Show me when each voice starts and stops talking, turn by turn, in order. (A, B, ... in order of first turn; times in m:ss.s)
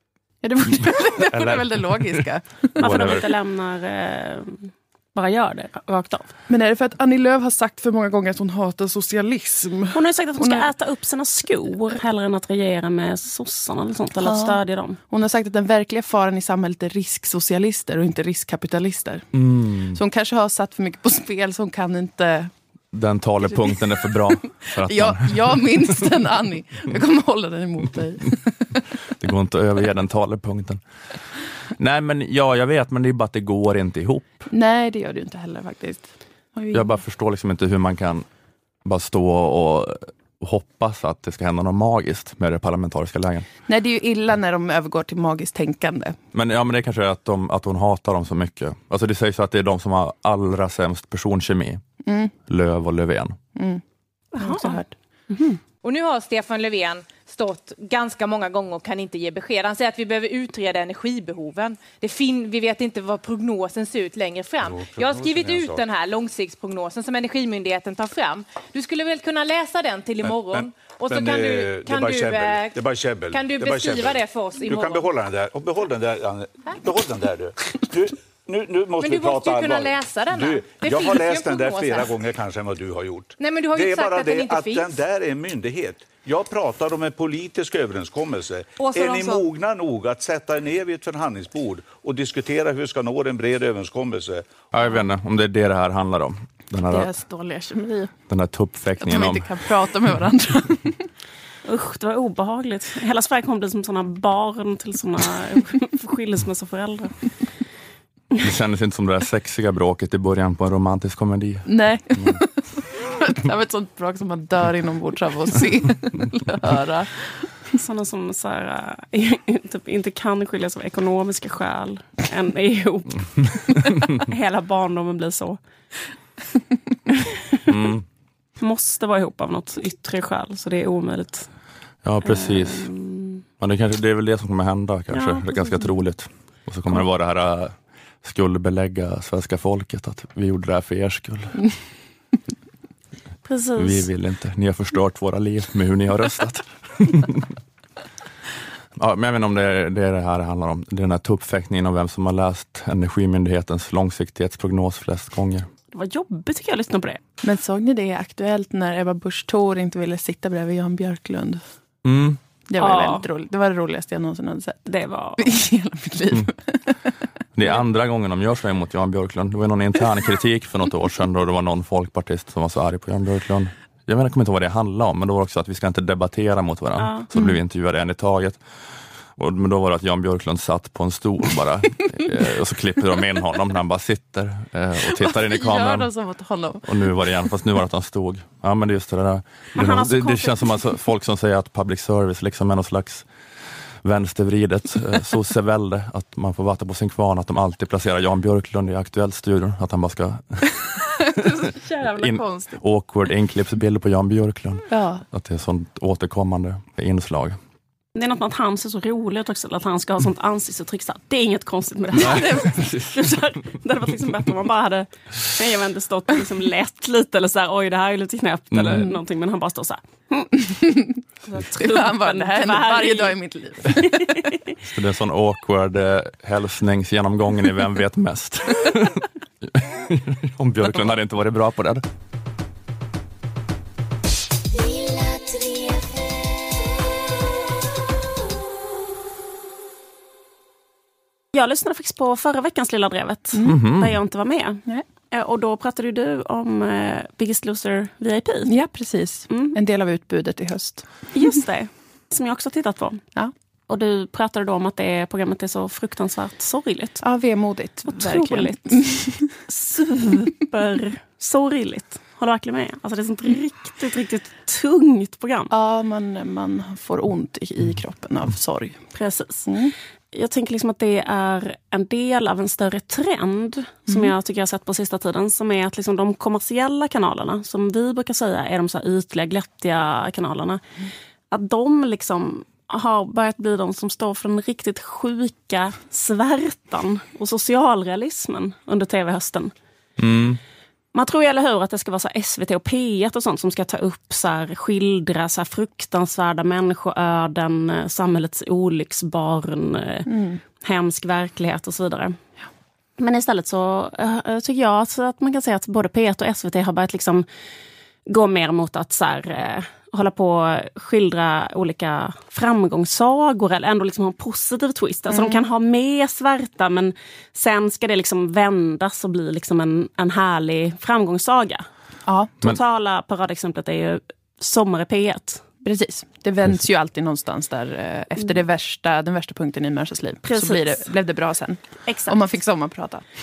0:00.4-0:03.2 A
0:00.8-0:02.2 B
0:02.8-0:03.2 B
0:02.8-0:06.3 C
0:06.5-0:10.7 A
0:09.9-0:15.0 C
0:14.2-0:14.6 A
0:15.1-0:19.3 A
0:19.3-0:20.0 B
0:19.9-0:22.5 A
0:22.9-0:26.0 B
0:24.9-0:28.8 A
0:29.2-0:30.8 B
0:31.8-0:34.3 B
0:34.5-0:36.9 A
0:36.7-0:38.2 B
0:38.8-0:43.5 B
0:43.7-0:46.2 A
0:46.3-0:51.8 B
0:52.1-0:52.3 A
0:52.5-0:53.4 B
0:53.6-0:53.8 A
0:54.3-0:54.8 C
0:54.4-0:55.6 A
0:55.8-1:15.1 D
1:04.6-1:05.8 E
1:10.2-1:34.7 E
1:19.0-1:22.2 D
1:23.4-1:25.0 D
1:28.8-1:29.5 D
1:34.7-1:37.1 B
1:36.9-1:38.1 A
1:38.3-1:39.5 B
1:39.0-1:41.0 A
1:41.6-1:47.2 C
1:48.4-1:52.4 B
1:51.7-1:57.3 A
1:57.8-2:05.6 C
2:07.7-2:08.0 B
2:08.6-2:11.5 C
2:12.0-2:12.9 B
2:12.2-2:13.4 C
2:13.6-2:21.6 B
2:15.1-2:15.8 C
2:23.4-2:24.1 C
2:23.8-2:27.5 B
2:29.0-2:35.7 B
2:35.9-2:37.2 C
2:37.4-2:41.6 A
2:42.0-2:42.4 B
2:42.7-2:44.9 A
2:42.8-2:43.3 C
2:44.9-2:45.4 C
2:45.4-2:47.0 A
2:47.6-2:58.6 B
2:57.0-2:57.3 C
2:57.3-2:57.6 A
2:59.4-3:06.1 B
3:05.1-3:06.9 A
3:06.8-3:13.3 B
3:09.8-3:10.8 C
3:14.0-3:21.0 B
3:21.2-3:22.8 A
3:22.1-3:27.6 B
3:24.9-3:25.2 A
3:28.2-3:40.5 C
3:32.2-3:32.8 A
3:32.2-3:33.1 B
3:38.7-3:39.1 B
3:40.7-3:44.4 A
3:41.6-3:43.4 C
3:44.8-3:52.0 B
4:01.5-4:08.7 C
4:03.5-4:03.8 A
4:03.6-4:04.2 B
4:08.7-4:11.2 A
4:09.5-4:09.8 C
4:11.3-4:13.2 C
4:13.9-4:17.2 C
4:17.2-4:19.5 A
4:18.0-4:19.0 C
4:19.6-4:25.7 C
4:25.7-4:29.0 A
4:29.1-4:29.7 C
4:29.7-4:29.9 A
4:30.3-4:40.8 C
4:34.1-4:34.3 A
4:41.5-4:49.7 C
4:50.2-4:50.6 B
4:51.1-5:00.3 C
5:00.3-5:00.6 A
5:00.8-5:02.4 C
5:03.2-5:07.5 C
5:08.3-5:21.9 C
5:15.3-5:15.6 A
5:22.3-5:22.5 A
5:22.6-5:25.6 C
5:25.8-5:33.3 A
5:30.4-5:31.1 C
5:32.1-5:32.4 C